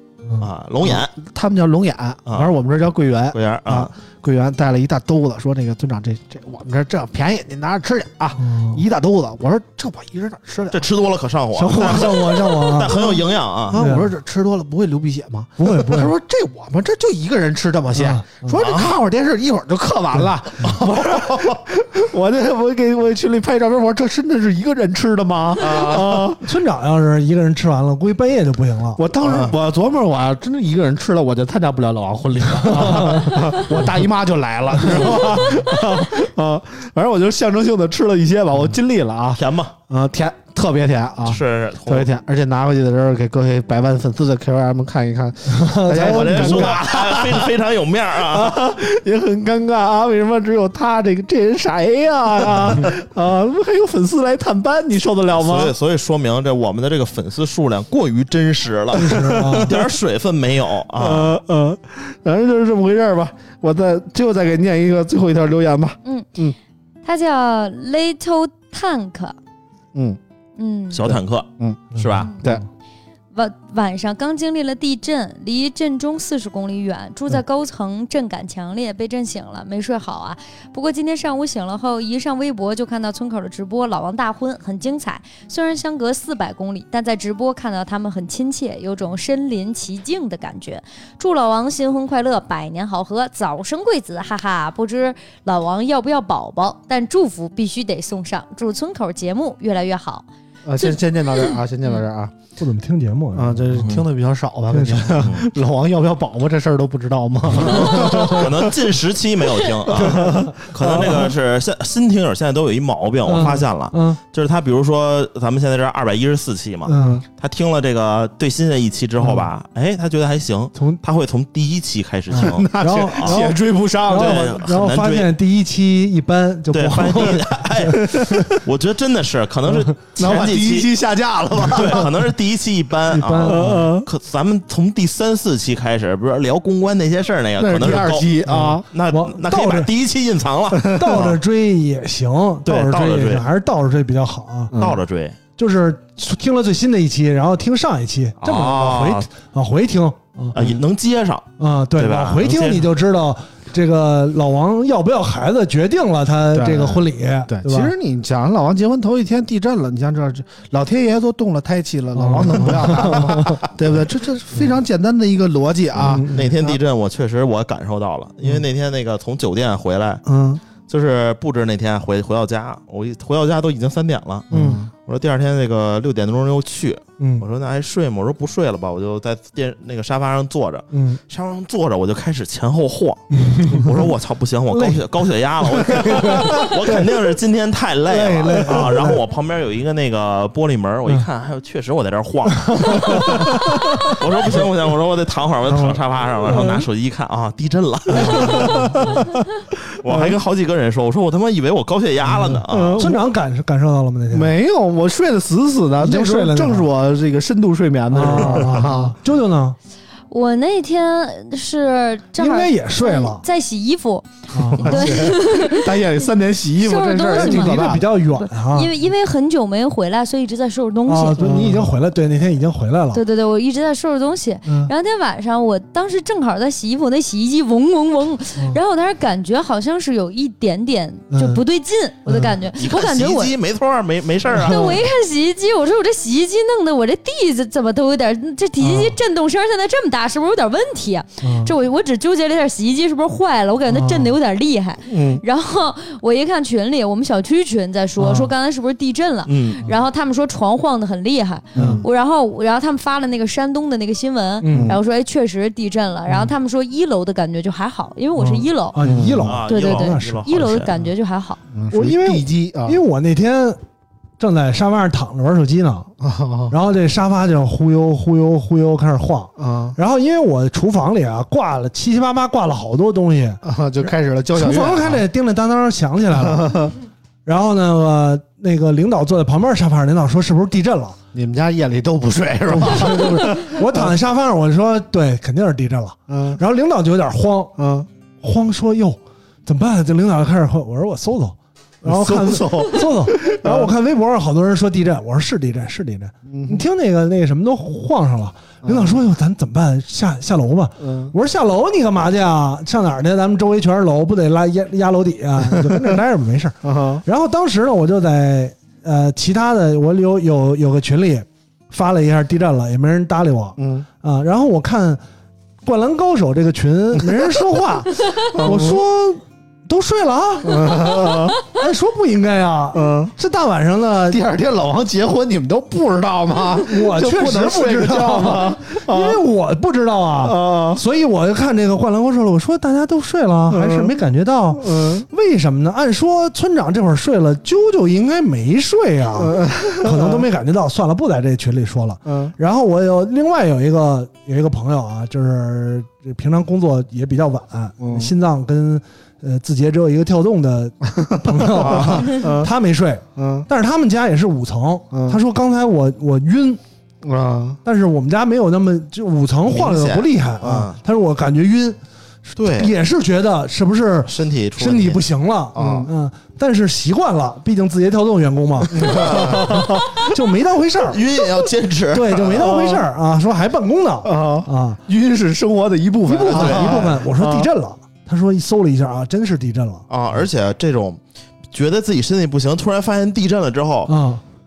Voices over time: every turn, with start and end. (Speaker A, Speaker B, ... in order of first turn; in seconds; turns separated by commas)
Speaker A: 0.4-1.1, Speaker B: 0.8-10.8, Speaker A: 2.2-2.5, Speaker A: 3.3-3.9, Speaker C: 8.4-8.8, Speaker A: 10.7-13.8, Speaker C: 11.5-13.1, Speaker B: 11.8-12.3, Speaker B: 12.9-26.4, Speaker C: 13.7-14.1, Speaker C: 15.6-16.1, Speaker C: 17.9-18.6, Speaker A: 18.6-18.9, Speaker A: 20.6-21.6, Speaker A: 25.6-26.3, Speaker C: 26.4-29.0, Speaker B: 29.0-47.5, Speaker A: 29.2-29.5, Speaker C: 32.6-33.4, Speaker A: 39.4-39.7, Speaker A: 41.2-42.1, Speaker C: 45.5-46.8, Speaker A: 45.9-48.6, Speaker B: 48.2-55.7, Speaker A: 55.3-61.3, Speaker C: 59.0-59.8, Speaker B: 59.0-59.7, Speaker B: 61.0-66.5, Speaker D: 67.0-69.3, Speaker B: 69.9-70.2, Speaker D: 70.6-71.0, Speaker A: 70.9-72.3, Speaker B: 71.0-71.9, Speaker C: 71.9-72.6, Speaker B: 72.4-72.6, Speaker D: 73.3-100.2, Speaker B: 100.6-102.3, Speaker D: 100.8-101.6, Speaker C: 102.6-103.9, Speaker B: 103.3-108.7, Speaker A: 103.8-104.0, Speaker C: 104.7-105.2, Speaker A: 105.2-105.5, Speaker A: 107.5-123.5, Speaker C: 107.7-108.4, Speaker B: 109.8-111.3, Speaker C: 110.0-111.2, Speaker C: 113.2-114.2, Speaker C: 116.9-117.2, Speaker B: 116.9-117.2, Speaker C: 119.2-119.5, Speaker C: 120.8-121.0, Speaker C: 122.3-128.2, Speaker B: 122.3-124.5, Speaker A: 124.1-125.3, Speaker A: 126.7-130.9, Speaker B: 128.0-128.5, Speaker B: 130.2-132.2, Speaker A: 131.6-141.4, Speaker C: 133.1-133.9, Speaker B: 133.4-134.1, Speaker B: 137.6-138.8, Speaker C: 138.5-139.9, Speaker B: 140.8-141.3, Speaker C: 140.9-144.7, Speaker A: 142.6-143.5, Speaker B: 144.7-145.0, Speaker A: 144.8-145.4, Speaker C: 145.6-150.8, Speaker A: 148.4-149.3, Speaker A: 150.5-152.9, Speaker C: 151.6-157.9, Speaker B: 156.5-166.8, Speaker C: 162.2-163.6, Speaker C: 166.0-166.4, Speaker A: 166.1-170.2, Speaker B: 170.2-170.6, Speaker A: 170.9-174.5, Speaker C: 174.5-174.8, Speaker B: 174.5-174.9, Speaker A: 175.1-199.2, Speaker C: 177.2-177.4, Speaker C: 180.9-181.2, Speaker C: 183.3-183.9, Speaker C: 184.7-185.0, Speaker C: 185.9-187.1, Speaker B: 186.2-186.7, Speaker C: 188.1-189.2, Speaker C: 192.7-194.1, Speaker C: 195.7-196.8, Speaker B: 196.5-196.8, Speaker C: 198.1-199.1, Speaker B: 198.1-199.3, Speaker A: 199.9-203.1, Speaker B: 200.0-200.4, Speaker C: 202.2-204.5, Speaker B: 202.7-203.2, Speaker B: 204.3-209.2, Speaker C: 206.0-206.9, Speaker C: 208.1-209.8, Speaker D: 210.3-216.0, Speaker C: 212.4-213.4, Speaker C: 214.5-215.3, Speaker B: 214.8-218.1, Speaker D: 216.8-221.7, Speaker C: 217.3-218.9, Speaker C: 221.1-223.2, Speaker B: 221.4-221.9, Speaker D: 223.1-233.5, Speaker C: 224.7-224.9, Speaker C: 231.3-231.6, Speaker C: 232.3-232.5, Speaker A: 232.7-235.0, Speaker C: 234.5-235.0, Speaker D: 234.5-259.0, Speaker C: 238.8-239.2, Speaker C: 241.4-241.7, Speaker C: 243.9-244.3, Speaker B: 245.1-245.4, Speaker C: 248.2-248.5, Speaker A: 249.5-249.8, Speaker B: 251.7-252.0, Speaker C: 251.8-252.0, Speaker C: 254.6-255.0, Speaker B: 254.7-255.0, Speaker C: 256.3-256.5, Speaker C: 258.4-260.5, Speaker B: 259.0-259.6, Speaker A: 259.4-260.9, Speaker D: 259.7-261.6, Speaker B: 261.7-263.0, Speaker C: 261.9-263.8, Speaker C: 264.4-266.1, Speaker B: 266.2-266.7, Speaker C: 266.7-273.6, Speaker B: 269.6-270.0, Speaker B: 273.6-275.2, Speaker C: 274.6-276.9, Speaker B: 276.3-276.9, Speaker C: 277.4-281.2, Speaker B: 281.3-284.1, Speaker C: 282.7-287.7, Speaker B: 286.3-286.6, Speaker B: 287.8-288.1, Speaker C: 288.4-315.2, Speaker B: 292.0-293.9, Speaker B: 296.5-296.9, Speaker B: 298.8-299.2, Speaker B: 301.0-301.3, Speaker B: 305.7-306.1, Speaker B: 306.8-307.2, Speaker B: 313.8-314.1, Speaker C: 315.8-324.4, Speaker B: 317.1-317.6, Speaker B: 318.5-319.0, Speaker B: 320.6-321.6, Speaker B: 322.9-323.3, Speaker B: 324.3-329.4, Speaker C: 326.8-356.8, Speaker B: 330.4-331.0, Speaker B: 333.7-334.2, Speaker B: 334.8-335.2, Speaker B: 339.4-340.5, Speaker B: 342.2-342.5, Speaker B: 348.0-348.3, Speaker B: 351.2-352.7, Speaker A: 351.9-352.2, Speaker B: 353.4-353.7, Speaker B: 355.1-355.4, Speaker B: 357.2-357.8, Speaker C: 357.8-371.2, Speaker A: 359.6-361.0, Speaker A: 362.6-362.9, Speaker A: 364.2-366.1, Speaker B: 365.8-366.1, Speaker B: 368.9-370.2, Speaker A: 369.0-369.9, Speaker A: 371.1-373.0, Speaker C: 372.1-375.0, Speaker B: 374.2-377.7, Speaker C: 376.3-380.0, Speaker A: 376.5-377.1, Speaker A: 380.1-381.2, Speaker A: 381.7-384.1, Speaker C: 384.1-384.4